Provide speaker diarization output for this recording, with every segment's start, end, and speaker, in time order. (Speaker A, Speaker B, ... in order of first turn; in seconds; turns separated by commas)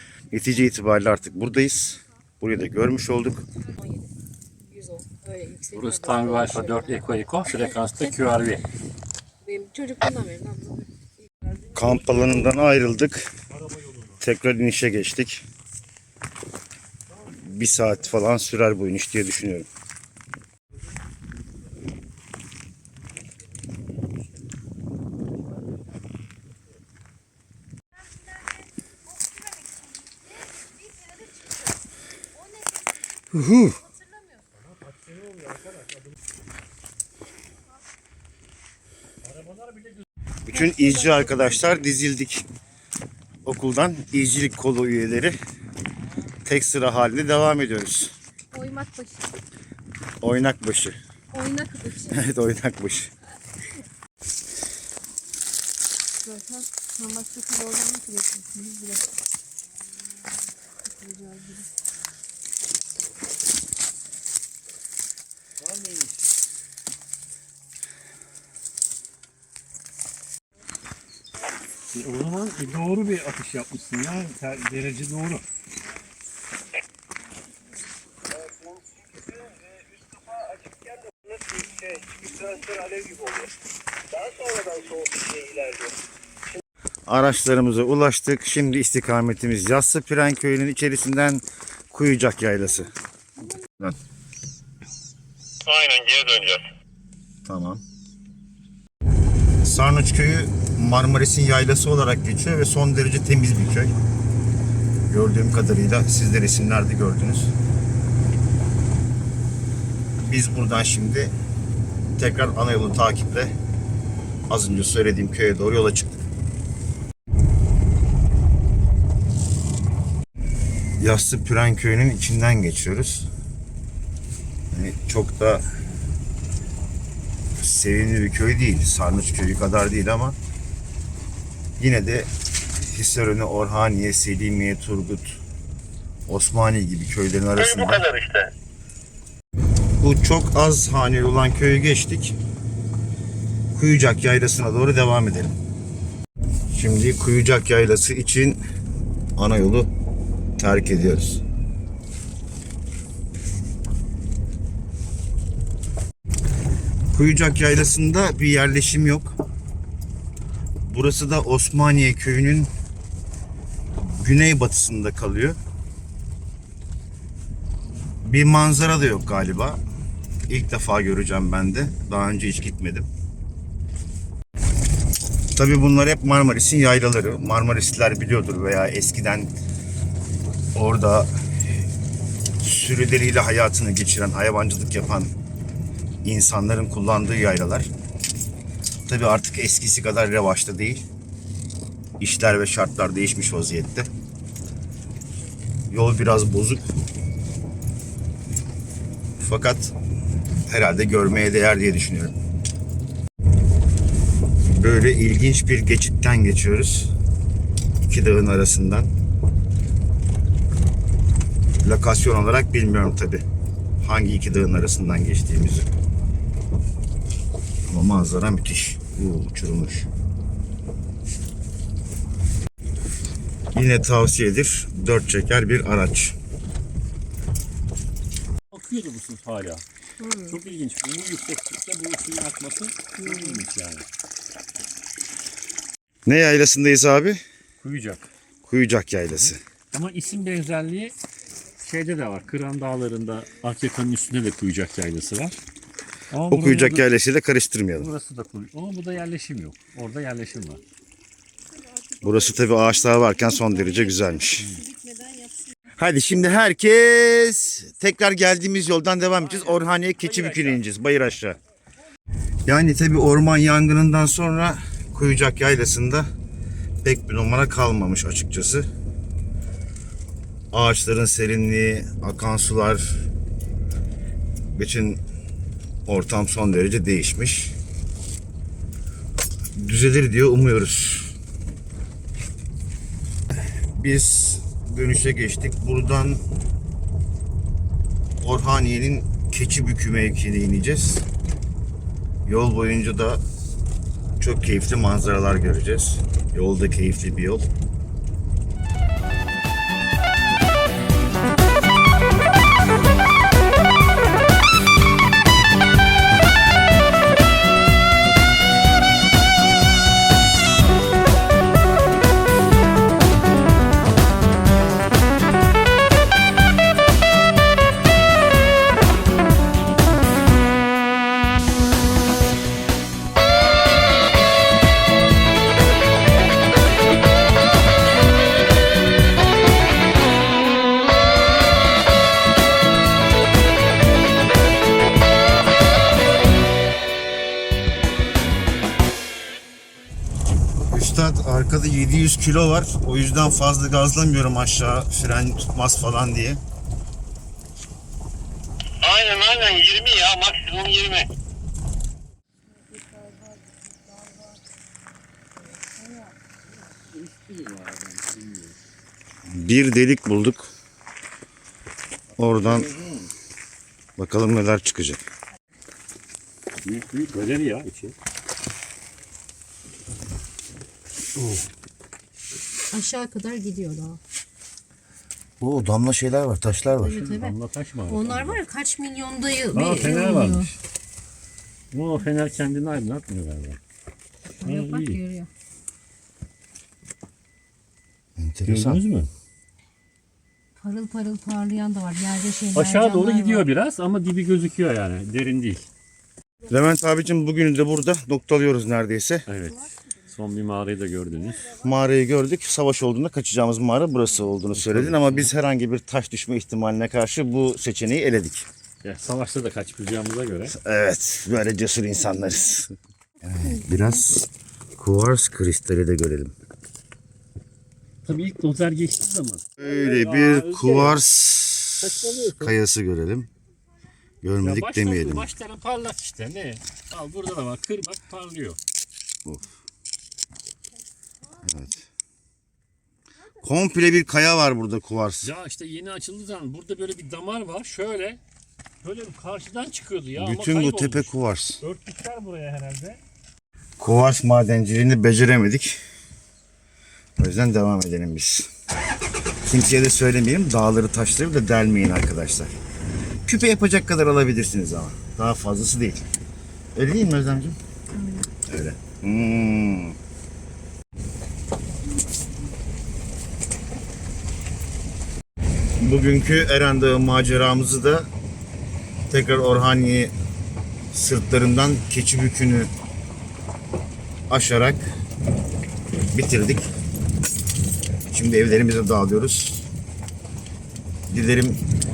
Speaker A: 0.3-3.4, Speaker B: 3.6-4.1, Speaker B: 4.6-6.9, Speaker C: 5.7-8.6, Speaker B: 7.5-8.1, Speaker B: 9.4-10.8, Speaker A: 11.7-13.3, Speaker C: 13.5-14.2, Speaker A: 14.2-15.4, Speaker C: 17.1-17.8, Speaker A: 17.3-19.7, Speaker B: 29.4-29.8, Speaker B: 32.6-32.9, Speaker A: 33.3-33.8, Speaker C: 34.6-36.1, Speaker C: 39.2-40.0, Speaker A: 40.5-42.4, Speaker B: 40.5-41.5, Speaker A: 43.4-45.4, Speaker A: 46.4-48.1, Speaker B: 48.5-49.2, Speaker A: 50.2-51.0, Speaker B: 51.3-52.2, Speaker A: 52.1-53.1, Speaker D: 56.2-59.0, Speaker D: 60.9-61.7, Speaker C: 65.6-66.2, Speaker C: 71.9-75.4, Speaker A: 87.1-92.9, Speaker E: 95.7-96.6, Speaker A: 95.7-96.6, Speaker A: 97.4-97.8, Speaker A: 99.6-103.9, Speaker A: 105.1-107.5, Speaker A: 110.2-111.3, Speaker A: 112.2-113.5, Speaker A: 114.5-116.2, Speaker A: 121.0-123.3, Speaker A: 124.7-125.7, Speaker A: 127.6-130.4, Speaker A: 131.8-132.3, Speaker A: 132.8-135.4, Speaker A: 136.3-138.2, Speaker E: 138.1-138.5, Speaker A: 140.0-142.3, Speaker A: 143.7-145.6, Speaker A: 146.7-148.6, Speaker A: 149.3-149.9, Speaker A: 150.6-151.4, Speaker A: 157.1-159.3, Speaker A: 160.9-162.7, Speaker A: 164.0-165.6, Speaker A: 168.2-169.8, Speaker A: 170.5-173.1, Speaker A: 175.5-179.5, Speaker A: 180.7-181.3, Speaker A: 182.6-185.3, Speaker A: 186.2-187.9, Speaker A: 189.1-191.0, Speaker A: 192.2-194.1, Speaker A: 195.9-196.8, Speaker A: 199.4-199.9, Speaker A: 200.7-202.3, Speaker A: 204.7-207.1, Speaker A: 208.1-209.1, Speaker A: 211.8-213.4, Speaker A: 214.0-215.9, Speaker A: 217.9-220.1, Speaker A: 223.7-226.4, Speaker C: 228.7-229.8, Speaker B: 230.2-230.6, Speaker C: 230.4-234.0, Speaker B: 233.2-233.6, Speaker A: 236.2-237.4, Speaker C: 237.8-238.2, Speaker A: 238.6-239.6, Speaker C: 239.4-241.1, Speaker C: 241.8-245.6, Speaker C: 246.3-247.2, Speaker A: 246.5-248.1, Speaker C: 247.9-250.8, Speaker A: 252.2-254.8, Speaker B: 253.5-255.7, Speaker C: 254.6-254.8, Speaker A: 256.0-261.6, Speaker C: 259.6-260.8, Speaker A: 262.7-266.3, Speaker A: 267.0-268.9, Speaker A: 270.7-273.2, Speaker A: 274.7-275.2, Speaker A: 276.1-277.7, Speaker A: 279.8-281.3, Speaker A: 283.9-286.4, Speaker A: 288.4-291.2, Speaker A: 292.4-293.4, Speaker A: 294.4-297.7, Speaker A: 340.9-346.6, Speaker E: 349.0-351.3, Speaker C: 357.2-358.7, Speaker A: 359.5-360.7, Speaker A: 362.4-362.9, Speaker C: 362.4-363.3, Speaker A: 364.2-365.2, Speaker C: 366.8-368.1, Speaker B: 372.9-374.2, Speaker A: 375.6-377.1, Speaker B: 377.0-377.6, Speaker C: 377.0-378.6, Speaker B: 378.1-380.7, Speaker C: 379.7-380.8, Speaker C: 381.9-383.8, Speaker B: 384.6-385.5, Speaker C: 384.6-385.2, Speaker A: 388.4-389.0, Speaker C: 388.7-389.3, Speaker B: 390.8-393.7, Speaker C: 392.7-395.9, Speaker A: 396.7-399.4, Speaker C: 399.5-401.8, Speaker A: 401.7-408.6, Speaker C: 404.7-405.5, Speaker C: 409.0-410.8, Speaker A: 410.7-416.5, Speaker C: 418.2-421.2, Speaker A: 419.8-423.5, Speaker C: 421.9-422.7, Speaker A: 424.4-425.5, Speaker C: 424.6-428.8, Speaker A: 431.6-432.1, Speaker A: 433.6-435.5, Speaker C: 435.4-438.4, Speaker C: 439.0-443.2, Speaker A: 440.3-441.8, Speaker A: 444.0-446.0, Speaker A: 447.4-448.7, Speaker A: 449.6-452.7, Speaker A: 453.4-456.2, Speaker A: 456.9-457.8, Speaker A: 458.6-460.1, Speaker A: 466.0-468.3, Speaker A: 469.3-470.3, Speaker A: 471.1-472.9, Speaker A: 474.5-475.1, Speaker A: 476.3-476.9, Speaker A: 478.3-479.9, Speaker A: 481.3-481.8